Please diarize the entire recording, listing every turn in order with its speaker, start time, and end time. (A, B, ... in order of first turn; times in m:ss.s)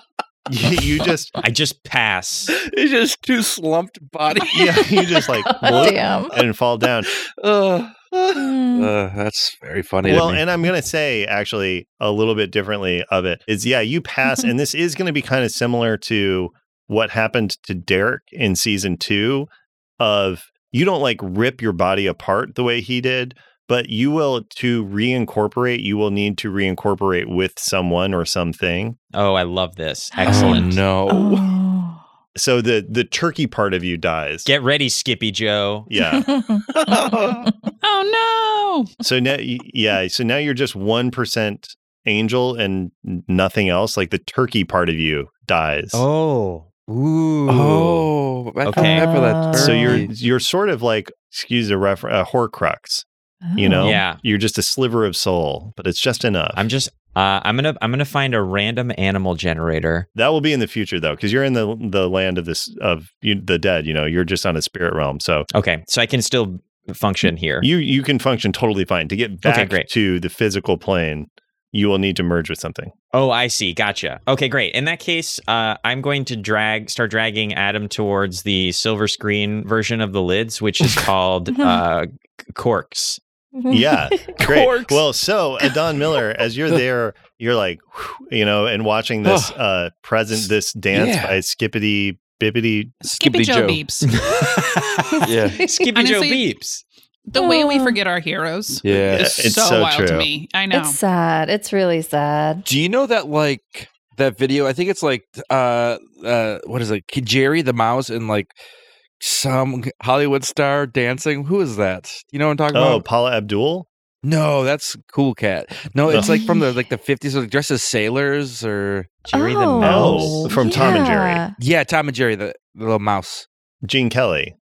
0:00.5-0:01.4 A
0:01.4-0:02.5 B
0:02.6-0:05.9 C
0:04.5-0:07.1 A
0:05.5-0:06.4 D
0:07.3-0:10.4 C
0:08.3-0:08.9 D
0:10.0-0:19.5 A
0:20.0-0:29.0 A
0:29.1-0:30.8 B
0:30.2-0:30.8 E
0:30.2-0:31.5 C
0:31.1-0:32.0 D
0:32.4-0:34.5 A
0:34.4-0:35.9 B
0:35.9-0:36.3 A
0:36.1-0:37.7 D
0:36.8-0:37.4 C
0:37.8-0:38.9 E
0:39.0-0:46.0 A
0:45.9-0:48.1 B
0:47.5-0:50.1 C
0:48.6-0:49.1 B
0:48.7-0:50.1 D
0:49.6-0:53.1 A
0:53.4-0:53.9 D
0:53.6-0:56.6 A
0:53.8-0:54.2 B
0:56.6-1:00.1 B
1:00.1-1:05.5 A
1:05.5-1:07.7 B
1:07.6-1:12.9 A
1:09.4-1:09.9 B
1:13.1-1:23.2 B
1:21.5-1:21.8 D
1:23.6-1:24.5 D
1:23.7-1:33.0 A
1:24.4-1:25.0 C
1:29.2-1:29.6 C
1:30.9-1:31.4 C
1:33.0-1:35.2 E
1:33.1-1:33.8 C
1:34.1-1:35.0 B
1:35.2-1:35.6 C
1:35.6-1:36.8 B
1:35.9-1:36.5 E
1:37.3-1:41.0 E
1:37.4-1:38.0 D
1:38.8-1:39.3 C
1:38.9-1:40.3 A
1:40.7-1:42.6 D
1:42.6-1:48.5 C
1:49.2-1:53.0 C
1:52.7-1:53.9 A
1:54.2-2:00.9 C
1:56.1-1:56.4 A
1:56.2-1:56.8 D
1:59.3-2:01.5 D
1:59.8-2:00.1 B
1:59.8-2:01.4 A
2:01.6-2:03.4 C
2:03.8-2:04.5 A